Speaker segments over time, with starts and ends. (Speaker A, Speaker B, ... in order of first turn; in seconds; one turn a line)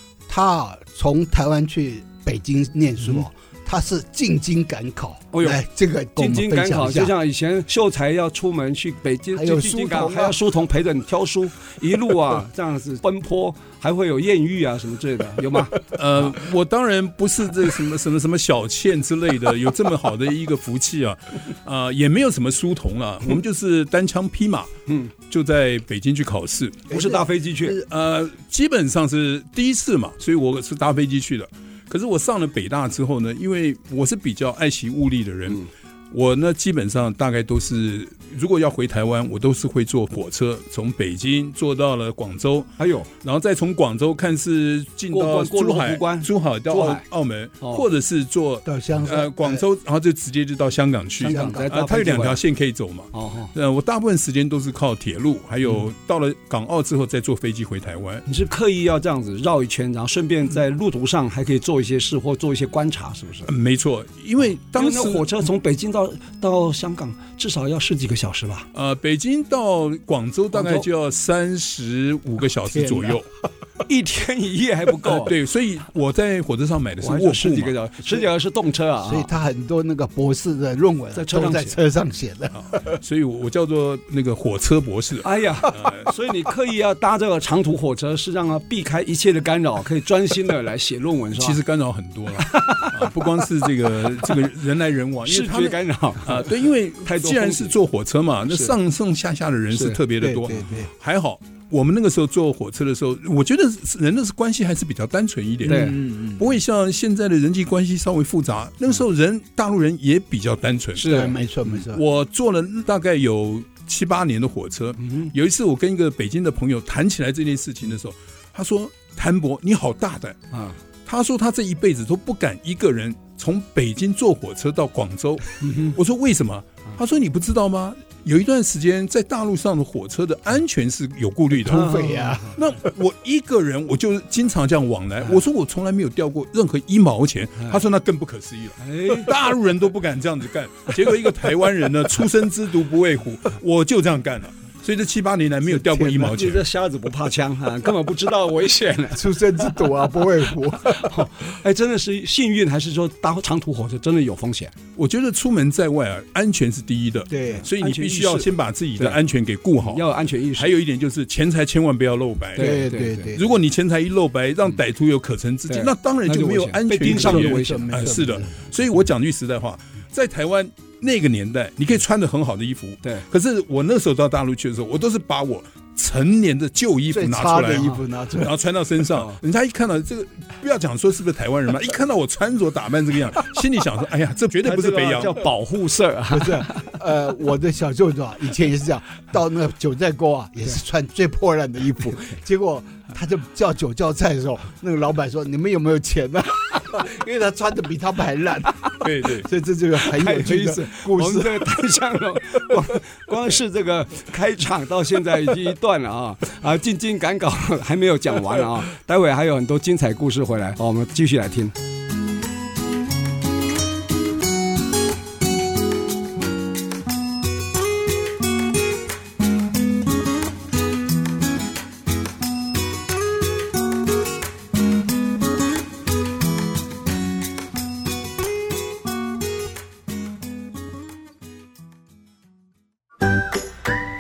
Speaker A: 0.3-7.1
Speaker B: 5.3-5.6
Speaker B: 6.2-16.3
Speaker A: 9.3-10.4
Speaker C: 15.8-24.7
Speaker C: 25.3-26.9
Speaker B: 26.9-27.8
Speaker A: 26.9-27.8
Speaker C: 27.7-58.2
Speaker B: 42.8-43.1
Speaker B: 45.1-47.0
Speaker A: 48.7-49.6
Speaker A: 51.2-51.7
Speaker B: 51.2-52.4
Speaker B: 53.1-53.5
Speaker B: 58.3-63.5
Speaker C: 63.5-65.3
Speaker B: 64.8-68.7
Speaker C: 68.7-73.3
Speaker B: 70.5-70.9
Speaker A: 72.7-73.2
Speaker B: 73.9-75.3
Speaker C: 75.0-77.8
Speaker B: 77.0-79.3
Speaker A: 79.0-82.5
Speaker B: 81.1-81.8
Speaker C: 82.5-86.1
Speaker B: 85.2-91.6
Speaker C: 91.3-111.3
Speaker B: 92.4-93.2
Speaker B: 95.2-97.8
Speaker B: 99.7-100.0
Speaker A: 100.2-100.9
Speaker A: 105.7-106.5
Speaker B: 105.7-106.0
Speaker B: 111.0-111.4
Speaker A: 111.0-112.0
Speaker C: 111.8-120.4
Speaker B: 115.0-115.3
Speaker B: 120.5-120.8
Speaker C: 121.1-146.7
Speaker B: 125.6-126.0
Speaker B: 131.6-132.6
Speaker A: 131.7-132.6
Speaker B: 138.8-139.3
Speaker A: 145.7-146.4
Speaker B: 146.2-149.4
Speaker A: 149.1-151.2
Speaker B: 150.9-154.7
Speaker C: 155.0-160.1
Speaker A: 157.3-157.7
Speaker B: 157.5-158.5
Speaker B: 159.8-160.7
Speaker C: 160.6-185.4
Speaker B: 162.6-163.4
Speaker A: 162.6-163.6
Speaker B: 165.7-168.1
Speaker A: 167.1-168.6
Speaker A: 177.1-178.6
Speaker B: 184.6-187.0
Speaker A: 186.3-201.7
Speaker C: 199.0-199.5
Speaker B: 200.1-211.8